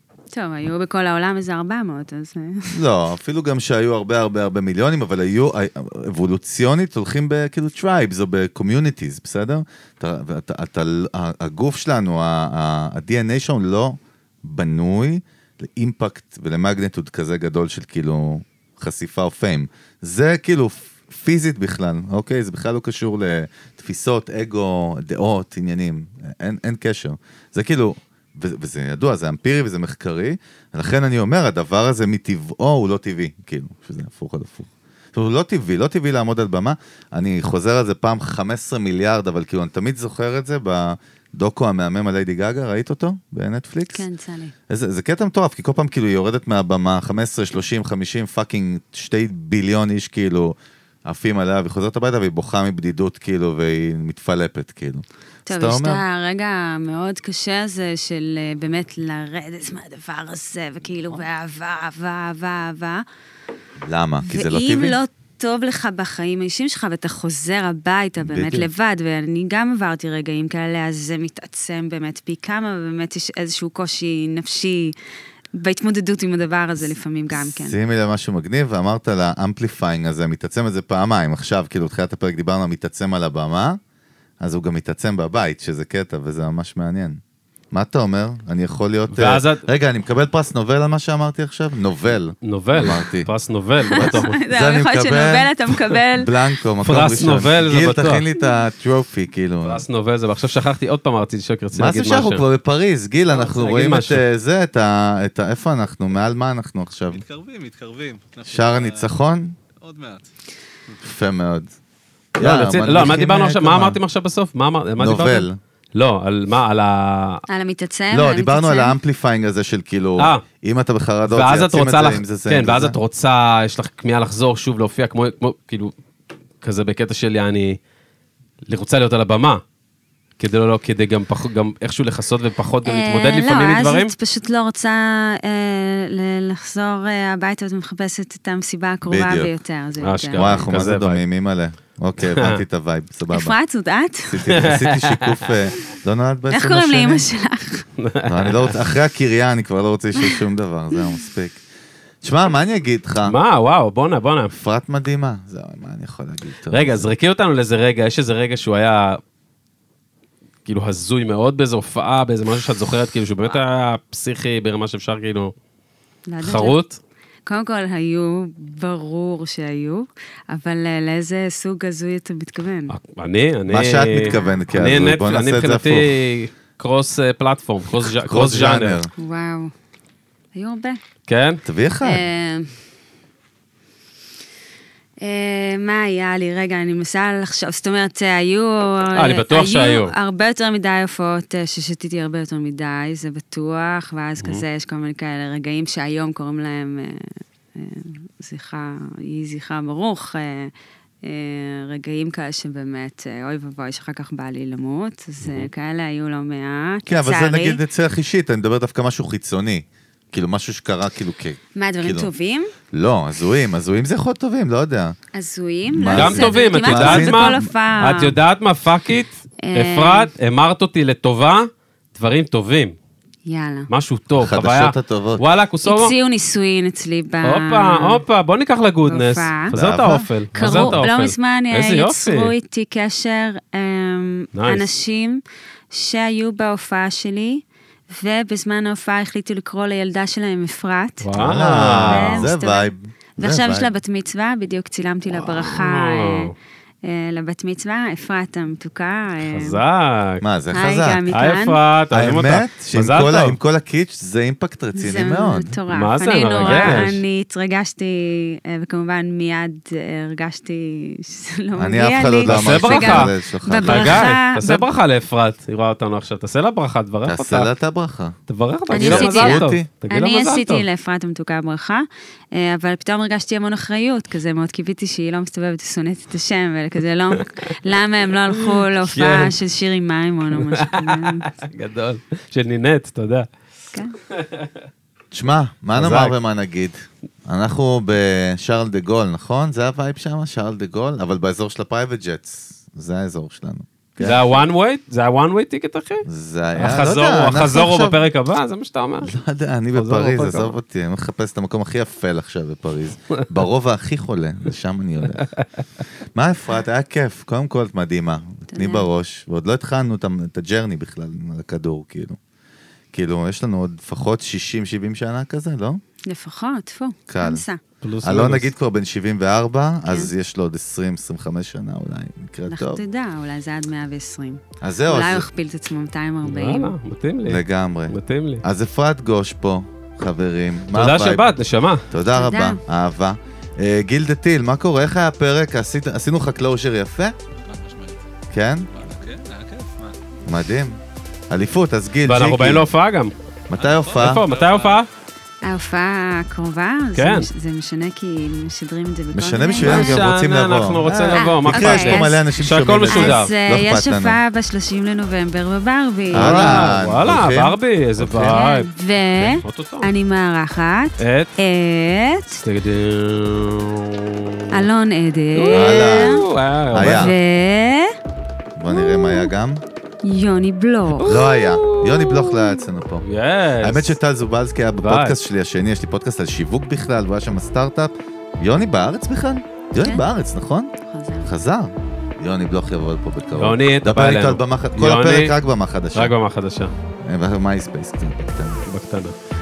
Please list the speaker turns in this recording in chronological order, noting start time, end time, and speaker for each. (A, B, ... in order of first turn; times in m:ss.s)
0:00.3-0:02.8 A
0:02.7-0:44.1 B
0:43.9-0:44.5 A
0:44.7-0:56.0 B
0:55.5-1:03.0 A
1:03.8-1:05.0 B
1:04.2-1:14.9 A
1:08.2-1:08.7 B
1:15.6-1:17.8 A
1:17.4-1:23.8 B
1:24.4-1:27.2 B
1:27.7-1:33.3 B
1:29.1-1:29.6 C
1:32.4-1:34.4 C
1:33.8-1:36.3 A
1:33.9-1:35.5 B
1:36.2-1:39.8 B
1:36.8-1:38.2 C
1:39.6-1:42.4 C
1:41.7-1:47.2 B
1:43.3-1:44.2 C
1:47.1-1:49.1 D
1:48.5-1:49.5 B
1:49.8-1:50.3 D
1:51.0-1:51.7 B
1:52.4-1:54.0 B
1:52.4-1:57.4 C
1:55.0-1:55.6 B
1:57.5-1:59.0 A
1:58.1-2:03.0 B
2:00.2-2:00.4 C
2:01.3-2:05.9 C
2:06.6-2:07.8 C
2:08.7-2:09.6 C
2:10.4-2:14.1 C
2:12.8-2:20.7 A
2:19.0-2:19.5 B
2:20.0-2:21.2 C
2:20.3-2:23.5 B
2:22.2-2:22.6 C
2:23.3-2:24.4 A
2:24.2-2:27.2 B
2:24.4-2:25.6 C
2:26.5-2:27.9 A
2:28.0-2:28.8 C
2:28.2-2:31.6 B
2:32.2-2:33.4 B
2:33.2-2:34.5 C
2:34.5-2:37.1 B
2:36.7-2:39.2 C
2:40.6-2:45.5 C
2:46.3-2:46.7 A
2:46.4-2:47.0 C
2:47.4-2:52.9 A
2:52.9-2:59.0 C
2:53.7-2:56.1 B
2:54.1-2:54.6 A
2:58.0-2:59.1 B
2:59.2-2:59.7 A
3:00.5-3:01.0 A
3:01.3-3:01.6 C
3:01.6-3:02.2 B
3:02.0-3:02.7 A
3:05.2-3:20.7 A
3:09.1-3:10.1 C
3:21.2-3:27.8 A
3:27.1-3:32.3 B
3:31.8-3:32.7 A
3:32.9-3:35.2 B
3:35.3-3:38.3 A
3:35.9-3:37.7 B
3:36.1-3:42.9 C
3:39.6-3:40.3 A
3:43.4-3:43.9 A
3:43.9-3:46.1 C
3:44.3-3:45.4 B
3:45.8-3:48.2 A
3:47.4-3:52.5 C
3:49.0-3:49.7 A
3:49.7-3:51.0 B
3:50.5-4:06.5 A
3:54.5-3:54.9 C
4:01.2-4:02.5 C
4:01.3-4:03.9 B
4:05.3-4:06.5 C
4:07.0-4:09.8 A
4:09.4-4:10.4 C
4:10.4-4:11.3 B
4:10.7-4:11.8 A
4:11.3-4:13.6 C
4:12.1-4:15.7 B
4:14.9-4:24.8 A
4:15.9-4:17.2 C
4:16.6-4:17.1 B
4:21.8-4:24.3 B
4:22.4-4:27.7 C
4:27.2-4:28.4 B
4:28.5-4:30.8 C
4:28.9-4:41.5 A
4:28.9-4:29.9 B
4:38.5-4:39.5 C
4:40.5-4:43.5 C
4:44.3-4:44.7 C
4:45.3-4:54.4 B
4:45.9-4:46.3 C
4:54.2-4:59.3 C
4:56.2-4:58.2 B
4:59.2-5:05.5 B
4:59.9-5:00.8 C
5:06.3-5:12.4 B
5:08.7-5:09.1 A
5:13.1-5:16.0 B
5:16.3-5:17.8 A
5:17.3-5:17.6 B
5:18.0-5:18.7 C
5:18.2-5:23.0 B
5:22.7-5:26.9 A
5:24.8-5:25.4 B
5:26.4-5:28.6 C
5:27.4-5:31.5 B
5:30.9-5:32.0 C
5:32.1-5:37.3 B
5:32.3-5:32.8 A
5:37.5-5:38.2 D
5:38.5-5:38.9 B
5:38.9-5:40.2 D
5:40.4-5:41.0 B
5:41.5-5:42.9 B
5:42.2-5:43.3 C
5:43.7-5:44.4 B
5:43.8-5:45.0 D
5:44.2-5:45.1 C
5:45.6-5:50.2 A
5:47.2-5:47.5 C
5:49.3-5:54.4 B
5:49.8-5:53.5 C
5:51.3-5:52.4 A
5:53.1-5:57.0 A
5:56.3-6:00.1 C
5:56.3-5:58.6 B
5:58.5-6:02.6 A
6:01.2-6:01.5 C
6:02.6-6:04.9 C
6:04.7-6:06.4 A
6:05.6-6:07.4 C
6:05.7-6:07.3 B
6:07.0-6:08.2 A
6:08.8-6:09.8 B
6:08.9-6:09.5 A
6:10.2-6:11.3 A
6:11.2-6:14.2 C
6:11.2-6:13.2 B
6:13.8-6:26.3 B
6:15.0-6:15.4 C
6:21.0-6:21.5 A
6:23.5-6:25.5 C
6:26.1-6:26.9 C
6:27.2-6:28.8 B
6:28.8-6:29.4 C